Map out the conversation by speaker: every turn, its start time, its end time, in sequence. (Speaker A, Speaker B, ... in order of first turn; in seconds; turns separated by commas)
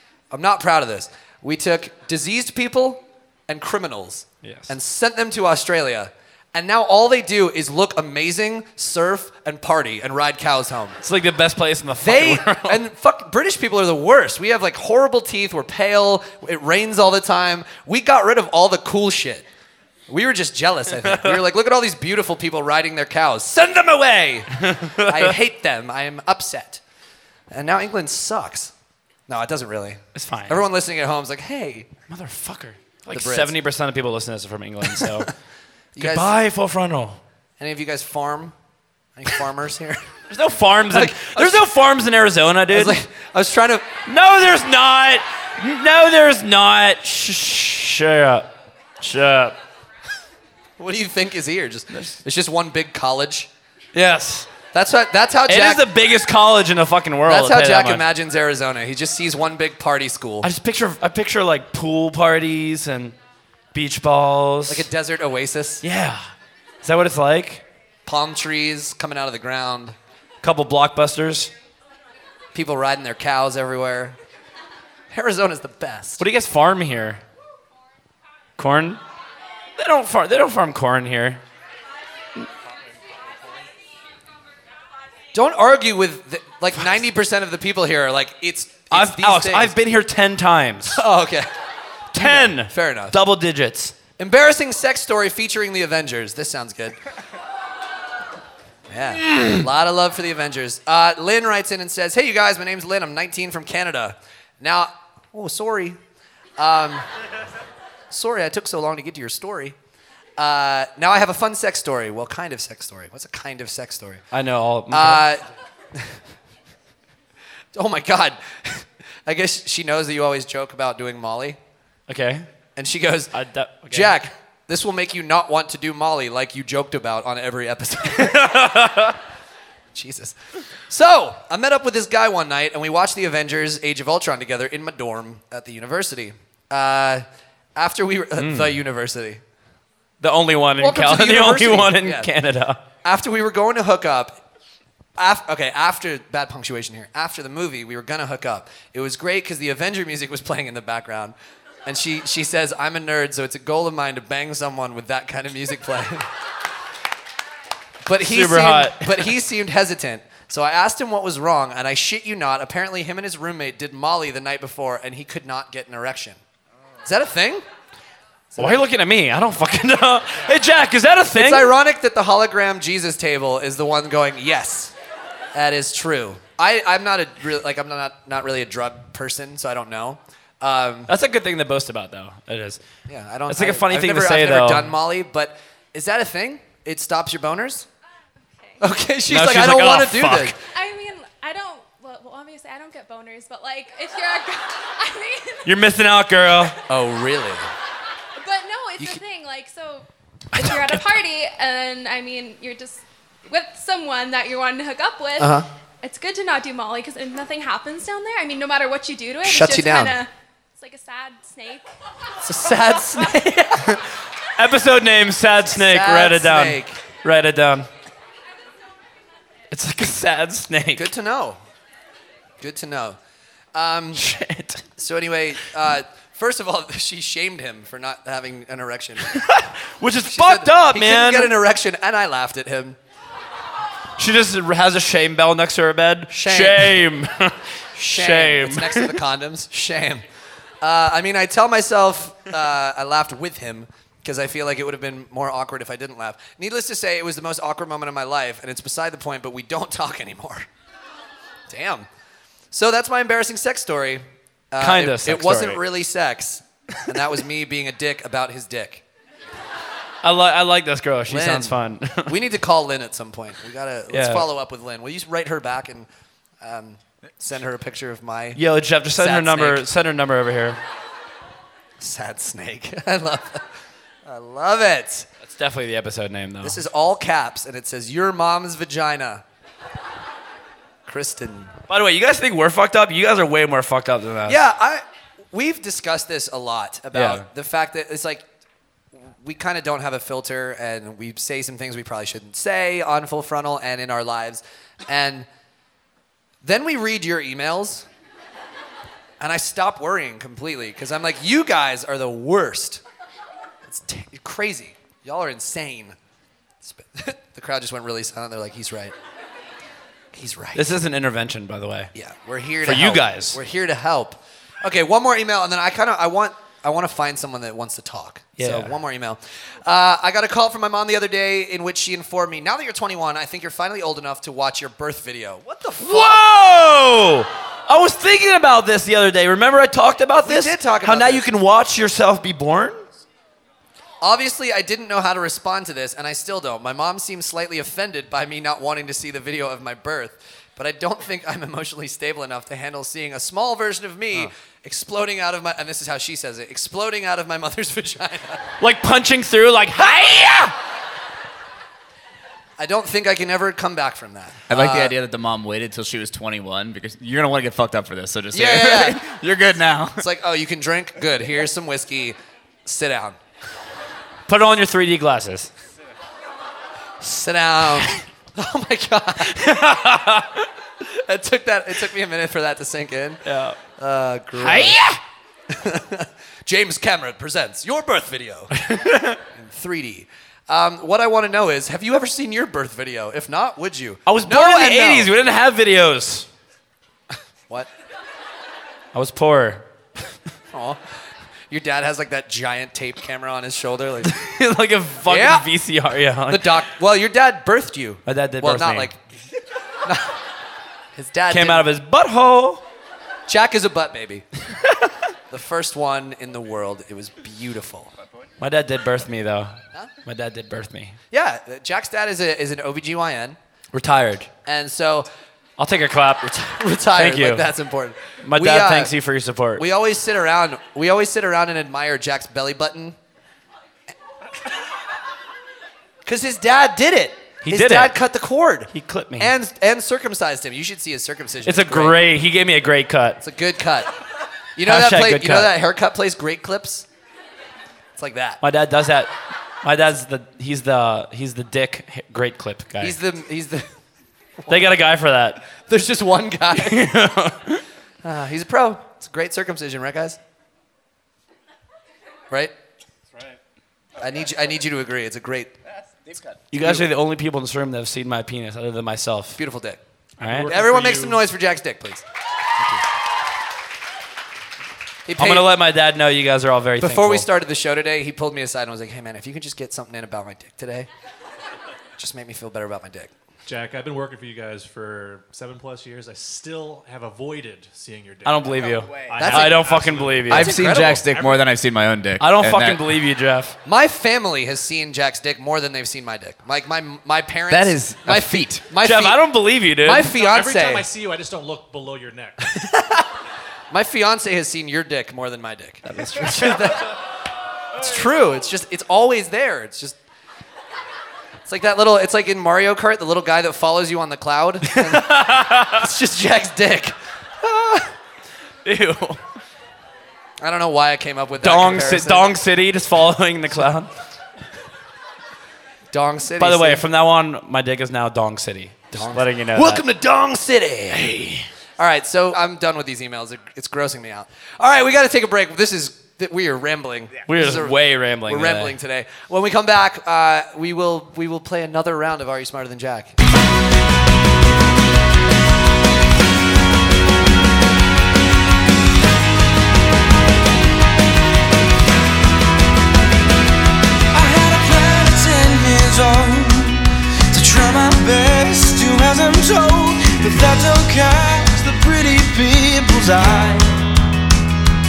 Speaker A: 0.3-11.0, Speaker B: 4.4-4.7, Speaker B: 11.0-12.8, Speaker A: 12.0-19.4, Speaker A: 20.1-26.8, Speaker B: 21.0-21.4, Speaker B: 24.6-25.3, Speaker A: 27.5-28.7, Speaker A: 29.3-31.9, Speaker B: 30.1-30.6, Speaker B: 32.1-35.3, Speaker A: 33.1-33.6, Speaker A: 35.0-35.3, Speaker A: 35.9-36.3, Speaker B: 36.0-37.2, Speaker A: 37.6-38.5, Speaker A: 39.1-40.1, Speaker B: 40.3-43.0, Speaker A: 40.9-41.7, Speaker A: 42.7-43.9, Speaker B: 44.1-49.5, Speaker A: 50.8-53.5, Speaker B: 51.9-52.2, Speaker B: 53.9-54.5, Speaker A: 54.7-55.9, Speaker B: 55.5-58.0, Speaker A: 57.3-60.5, Speaker B: 60.4-63.1, Speaker B: 63.7-64.9, Speaker A: 64.7-65.8, Speaker B: 65.8-66.2, Speaker B: 66.8-67.6, Speaker A: 68.1-70.0, Speaker B: 70.4-71.5, Speaker A: 72.5-74.2, Speaker A: 75.1-76.2, Speaker B: 76.2-77.2, Speaker B: 78.6-79.0, Speaker B: 79.8-81.4, Speaker A: 85.3-89.7, Speaker B: 88.9-91.0, Speaker A: 90.9-91.5, Speaker B: 92.1-94.0, Speaker A: 92.1-93.2, Speaker A: 94.2-97.0, Speaker A: 98.9-106.0, Speaker B: 99.3-99.5, Speaker A: 106.6-107.1, Speaker A: 108.1-109.8, Speaker A: 110.4-114.2, Speaker B: 114.3-115.3, Speaker A: 114.9-115.4, Speaker A: 117.7-121.6, Speaker B: 122.1-122.5, Speaker A: 122.8-123.3, Speaker B: 123.3-124.2, Speaker A: 123.9-128.8, Speaker B: 128.1-129.2, Speaker A: 129.9-130.4, Speaker A: 130.9-137.2, Speaker A: 137.8-139.4, Speaker B: 138.4-138.8, Speaker B: 140.2-142.8, Speaker A: 140.8-142.3, Speaker A: 143.0-144.4, Speaker A: 145.2-156.3, Speaker A: 158.1-166.4, Speaker B: 158.2-159.3, Speaker A: 167.0-167.7, Speaker A: 168.5-168.8, Speaker B: 168.6-171.7, Speaker A: 171.3-174.9, Speaker A: 175.5-181.1, Speaker B: 181.1-182.8, Speaker A: 183.1-187.9, Speaker B: 183.5-184.9, Speaker A: 188.8-190.6, Speaker B: 189.3-190.5, Speaker C: 190.7-195.8, Speaker B: 195.7-196.8, Speaker A: 196.9-197.6, Speaker C: 198.4-211.9, Speaker A: 205.4-205.7, Speaker A: 209.4-210.2, Speaker A: 212.4-214.0, Speaker B: 214.6-217.9, Speaker A: 215.7-217.0, Speaker B: 219.7-221.1, Speaker A: 220.9-221.6, Speaker A: 222.6-223.2, Speaker A: 223.8-224.3, Speaker B: 224.2-224.8, Speaker A: 225.0-229.4, Speaker B: 229.3-231.5, Speaker A: 230.2-233.0, Speaker B: 234.2-239.1, Speaker A: 236.3-237.0, Speaker A: 238.0-240.2, Speaker A: 240.8-250.7, Speaker A: 251.7-252.1, Speaker A: 252.7-259.0, Speaker B: 254.8-255.8, Speaker B: 260.2-262.3, Speaker A: 261.3-266.1, Speaker B: 264.1-264.5, Speaker A: 266.6-268.6, Speaker B: 268.6-270.8, Speaker A: 269.1-269.9, Speaker A: 272.0-273.7, Speaker A: 274.3-275.3, Speaker B: 275.4-276.8, Speaker A: 276.6-279.4, Speaker A: 281.1-281.7, Speaker B: 281.9-284.6, Speaker A: 284.5-288.4, Speaker B: 287.1-287.4, Speaker A: 289.1-295.5, Speaker A: 296.6-298.1, Speaker A: 299.4-303.0, Speaker A: 303.9-306.2, Speaker A: 306.8-309.1, Speaker A: 310.3-310.9, Speaker B: 310.8-312.1, Speaker A: 312.1-326.4, Speaker B: 312.8-313.6, Speaker B: 318.6-318.9, Speaker B: 326.0-333.0, Speaker A: 330.4-331.5, Speaker A: 334.2-348.6, Speaker B: 348.8-350.7, Speaker A: 352.8-355.2, Speaker D: 354.7-360.2, Speaker A: 358.5-359.2, Speaker A: 360.2-363.4, Speaker B: 364.5-365.7, Speaker A: 367.2-370.0, Speaker B: 369.5-370.7, Speaker A: 371.0-375.0, Speaker B: 373.4-373.8, Speaker B: 374.6-375.2, Speaker A: 375.7-378.8, Speaker B: 378.7-379.4, Speaker A: 379.5-385.3, Speaker B: 384.3-386.5, Speaker B: 389.1-389.8, Speaker A: 390.7-391.0, Speaker A: 391.7-394.3, Speaker B: 394.2-396.7, Speaker A: 395.3-395.7, Speaker A: 396.5-399.2, Speaker B: 398.3-399.1, Speaker A: 400.0-400.3, Speaker A: 401.1-401.9, Speaker B: 401.5-402.8, Speaker A: 403.5-404.4, Speaker A: 405.5-408.1, Speaker B: 408.6-411.2, Speaker A: 411.3-413.6, Speaker B: 413.9-414.5, Speaker A: 414.6-415.3, Speaker B: 415.8-416.5, Speaker A: 416.4-419.1, Speaker B: 417.1-417.7, Speaker B: 418.4-419.8, Speaker A: 419.8-423.2, Speaker A: 426.2-432.2, Speaker B: 427.6-428.2, Speaker B: 428.9-429.5, Speaker B: 431.6-433.4, Speaker A: 433.4-434.1, Speaker A: 434.8-437.1, Speaker B: 434.8-435.7, Speaker A: 438.2-438.6, Speaker B: 438.6-439.3, Speaker B: 439.8-443.2, Speaker A: 443.0-443.9, Speaker B: 444.7-445.6, Speaker A: 445.8-447.1, Speaker B: 446.8-447.8, Speaker A: 448.2-450.4, Speaker A: 454.2-455.7, Speaker B: 456.7-459.6, Speaker A: 456.7-457.1, Speaker A: 459.6-460.0, Speaker B: 460.4-460.7, Speaker E: 460.4-461.4, Speaker A: 460.6-462.2, Speaker A: 465.3-465.7, Speaker B: 465.4-467.5, Speaker A: 467.0-471.1, Speaker A: 472.2-473.3, Speaker E: 473.7-481.6, Speaker B: 478.4-480.7, Speaker A: 479.3-479.9, Speaker D: 480.5-483.0, Speaker A: 480.5-481.3, Speaker B: 482.4-483.8, Speaker A: 483.9-489.4, Speaker B: 487.7-490.3, Speaker A: 490.0-491.1, Speaker E: 490.2-492.7, Speaker A: 492.8-493.2, Speaker A: 493.9-497.1, Speaker B: 496.1-496.8, Speaker A: 498.0-500.2, Speaker A: 501.6-508.1, Speaker B: 504.9-506.0, Speaker B: 508.9-509.4, Speaker A: 510.6-512.6, Speaker B: 511.6-514.1, Speaker A: 516.1-517.0, Speaker B: 516.6-520.0, Speaker A: 519.1-533.4, Speaker B: 527.5-529.0, Speaker F: 544.3-554.0